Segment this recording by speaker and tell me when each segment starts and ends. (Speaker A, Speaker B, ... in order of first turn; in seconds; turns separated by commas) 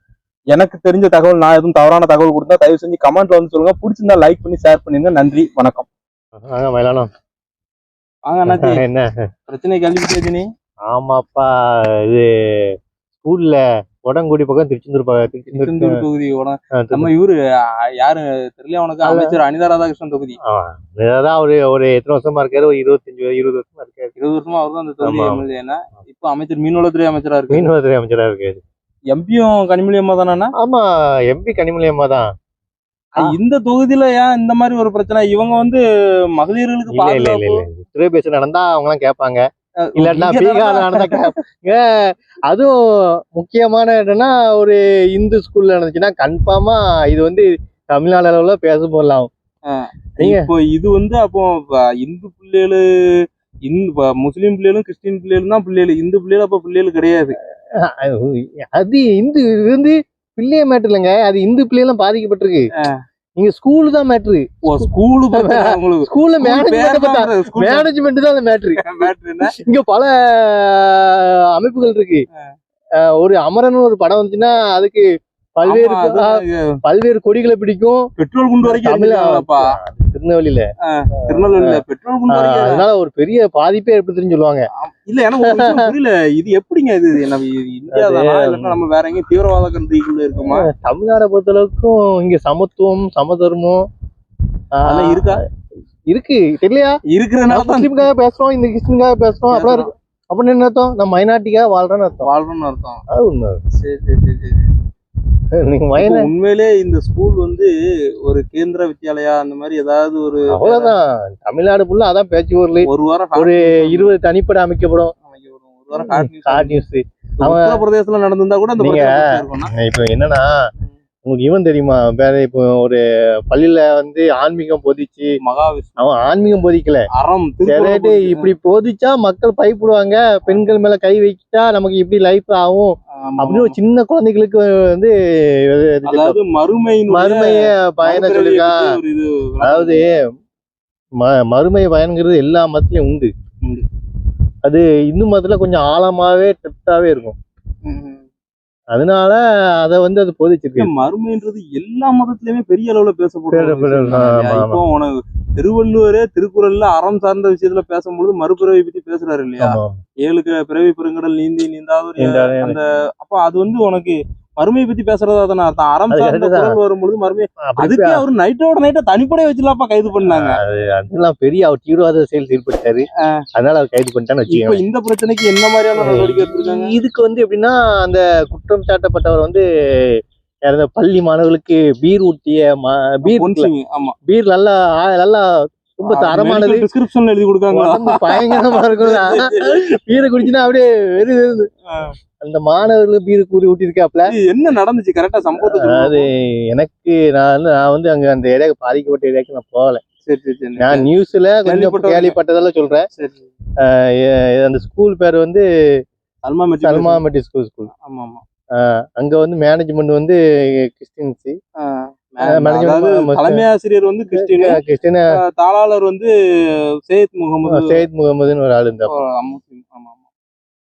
Speaker A: 0.5-5.9, Speaker B: 6.4-7.1, Speaker A: 8.3-8.8, Speaker B: 8.5-9.1, Speaker A: 9.5-10.5, Speaker B: 10.9-16.0, Speaker A: 15.5-17.4, Speaker B: 16.8-17.1, Speaker A: 18.0-20.4, Speaker B: 19.0-19.4, Speaker B: 20.4-24.1, Speaker A: 24.2-27.7, Speaker B: 25.0-25.4, Speaker B: 27.5-28.6, Speaker A: 29.1-30.5, Speaker B: 30.6-32.3, Speaker A: 33.2-35.8, Speaker A: 36.4-37.7, Speaker B: 36.9-39.4, Speaker A: 39.8-41.3, Speaker B: 40.0-49.3, Speaker A: 49.7-57.4, Speaker B: 50.2-50.5, Speaker B: 57.9-62.7, Speaker B: 63.4-68.8, Speaker A: 64.7-67.9, Speaker A: 68.8-69.5, Speaker B: 69.5-72.2, Speaker B: 73.0-78.1, Speaker A: 75.6-76.6, Speaker A: 78.2-79.7, Speaker B: 78.6-80.7, Speaker A: 80.8-82.8, Speaker B: 81.3-81.8, Speaker B: 82.3-84.7, Speaker A: 84.8-90.7, Speaker B: 85.4-85.9, Speaker B: 87.9-88.8, Speaker B: 90.4-93.9, Speaker B: 94.8-95.4, Speaker A: 94.8-95.4, Speaker B: 96.1-97.0, Speaker A: 97.1-98.1, Speaker B: 97.5-102.3, Speaker A: 99.5-99.9, Speaker A: 102.2-103.0, Speaker B: 103.1-103.6, Speaker A: 103.8-104.7, Speaker B: 105.6-106.3, Speaker A: 106.0-107.7, Speaker A: 108.2-110.9, Speaker B: 110.5-115.1, Speaker A: 112.8-114.2, Speaker A: 115.3-116.8, Speaker B: 116.0-117.8, Speaker A: 117.4-119.7, Speaker B: 118.8-120.5, Speaker B: 121.2-125.3, Speaker A: 125.4-126.0, Speaker B: 126.0-127.1, Speaker A: 127.2-128.5, Speaker B: 127.7-136.4, Speaker A: 133.2-133.8, Speaker A: 136.1-140.0, Speaker B: 137.1-138.9, Speaker B: 139.6-140.2, Speaker B: 141.2-143.3, Speaker B: 144.6-147.4, Speaker A: 147.8-148.2, Speaker B: 148.9-150.9, Speaker A: 150.8-170.6, Speaker B: 153.5-154.8, Speaker B: 159.6-160.0, Speaker B: 162.2-162.8, Speaker B: 166.1-166.8, Speaker B: 167.7-168.2, Speaker B: 170.2-173.1, Speaker B: 173.6-174.8, Speaker A: 174.5-176.9, Speaker B: 176.0-183.7, Speaker A: 183.3-184.2, Speaker B: 184.3-186.9, Speaker A: 186.1-189.8, Speaker B: 187.7-191.7, Speaker A: 191.9-192.2, Speaker B: 192.4-194.3, Speaker A: 194.3-196.3, Speaker B: 195.6-200.0, Speaker A: 200.2-201.1, Speaker B: 200.8-203.1, Speaker A: 201.7-202.4, Speaker A: 203.1-203.5, Speaker B: 203.8-205.7, Speaker A: 206.4-207.2, Speaker B: 206.8-207.9, Speaker A: 208.0-208.4, Speaker B: 208.8-211.6, Speaker A: 211.8-214.8, Speaker B: 212.4-213.6, Speaker B: 214.4-215.3, Speaker A: 215.3-216.3, Speaker A: 217.1-218.0, Speaker B: 217.7-219.2, Speaker A: 219.1-220.2